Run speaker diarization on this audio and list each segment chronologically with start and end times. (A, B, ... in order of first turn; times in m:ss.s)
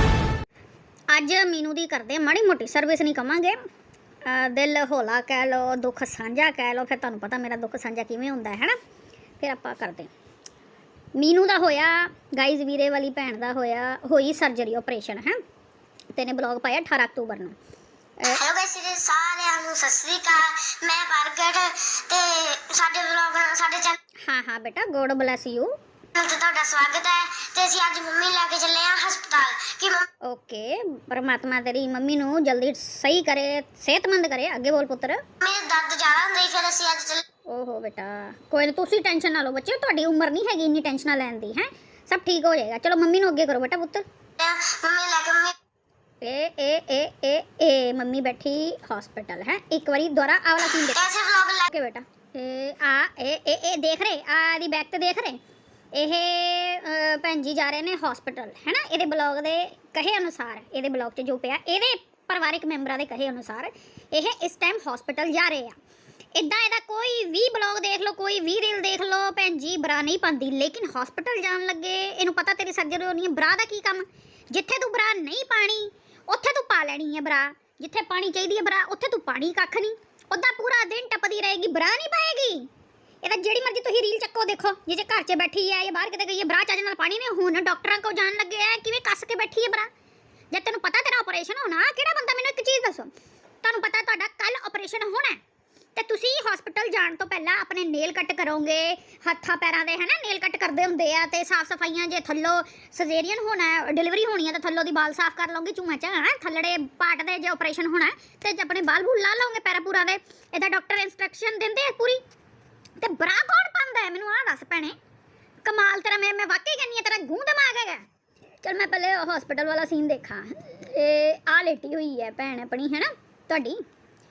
0:01.1-0:03.6 A
0:04.2-0:08.8 A
0:09.4-0:10.1 A
0:11.2-0:15.4 A
0:16.1-0:17.6 A
0:18.3-0:24.0 B
0:24.2-0:25.7 A
0:26.2-0:30.0 B
0:30.2-0:35.2 A
0:35.4-0:37.2 B
0:37.5-0:44.0 A
0:44.4-0:45.5 B
0:46.2-0:51.0 A
0:50.7-0:51.7 B
0:51.6-0:55.4 A
0:55.9-1:05.8 A
1:06.3-1:22.7 A
1:23.2-1:29.9 A
1:30.5-1:33.1 A
1:33.6-1:35.4 A
1:36.0-1:52.2 A
1:53.0-1:55.0 A
1:55.6-1:58.0 A
1:58.6-2:03.8 A